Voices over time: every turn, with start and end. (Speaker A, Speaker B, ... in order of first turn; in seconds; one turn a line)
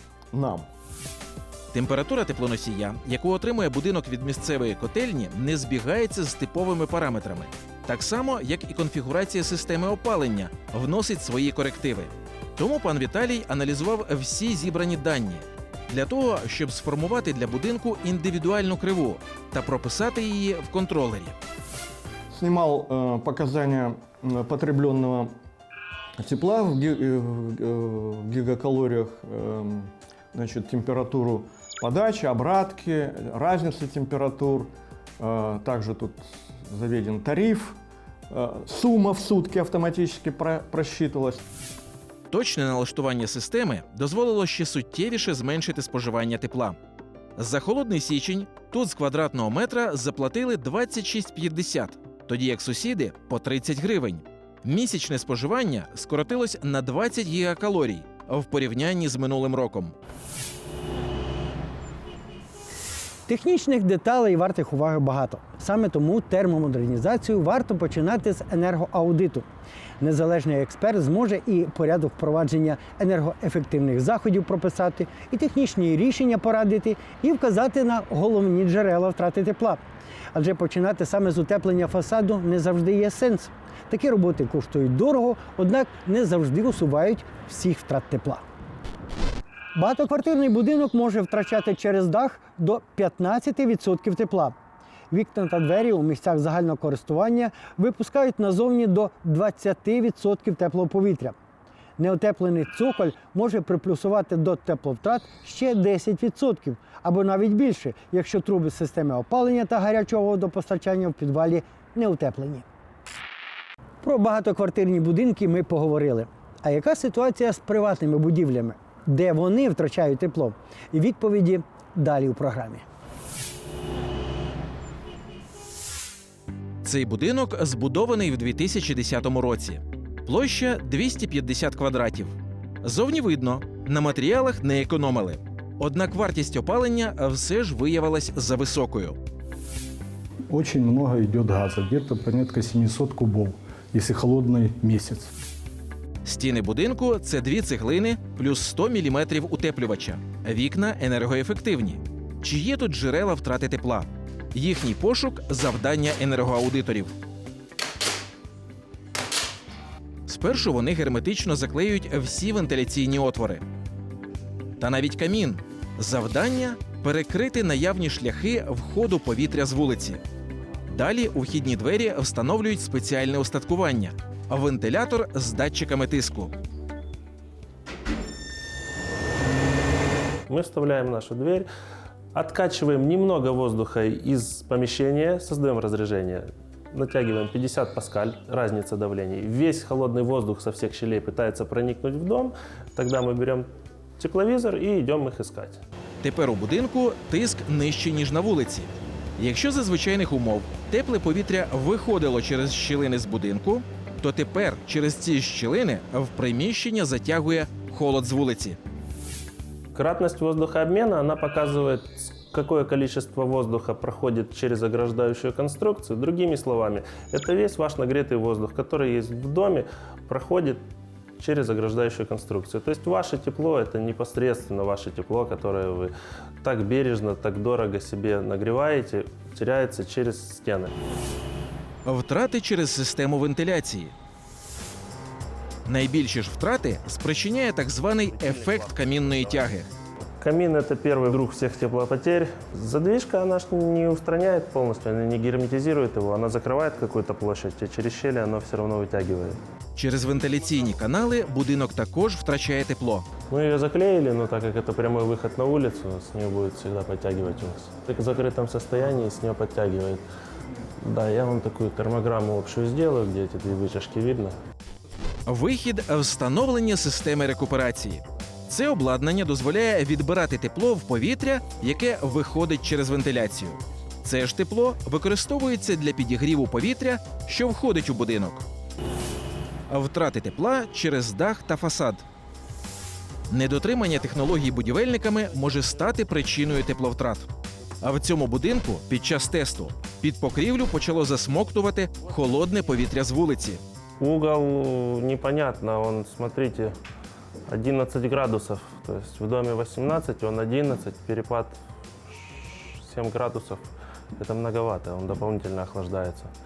Speaker A: 0.3-0.7
Speaker B: 1.7-21.4
Speaker A: 22.3-25.3
Speaker A: 26.2-37.8
Speaker A: 38.3-41.4
Speaker B: 42.3-46.8
Speaker B: 47.4-59.9
Speaker C: 63.3-69.5
Speaker C: 70.0-79.8
Speaker C: 80.3-88.4
Speaker C: 89.8-94.5
Speaker C: 95.1-101.3
Speaker C: 102.0-112.7
Speaker C: 114.0-122.8
Speaker B: 126.8-139.2
Speaker D: 140.5-145.3
Speaker B: 146.2-157.1
Speaker B: 160.3-163.6
Speaker B: 164.8-170.2
Speaker B: 170.9-176.5
Speaker E: 180.5-181.7
Speaker E: 182.3-195.8
Speaker B: 196.2-208.8
Speaker E: 209.9-220.8
Speaker E: 221.4-230.9
Speaker B: 232.1-234.1
Speaker B: 235.9-239.9
Speaker E: 238.2-239.8
Speaker E: 240.4-249.6
Speaker B: 250.0-253.3
Speaker E: 253.5-260.2
Speaker E: 261.0-264.6
Speaker B: 265.5-278.7
Speaker B: 279.9-282.2
Speaker B: 283.5-287.5
Speaker B: 288.0-293.8
Speaker E: 294.2-296.9
Speaker E: 297.7-306.5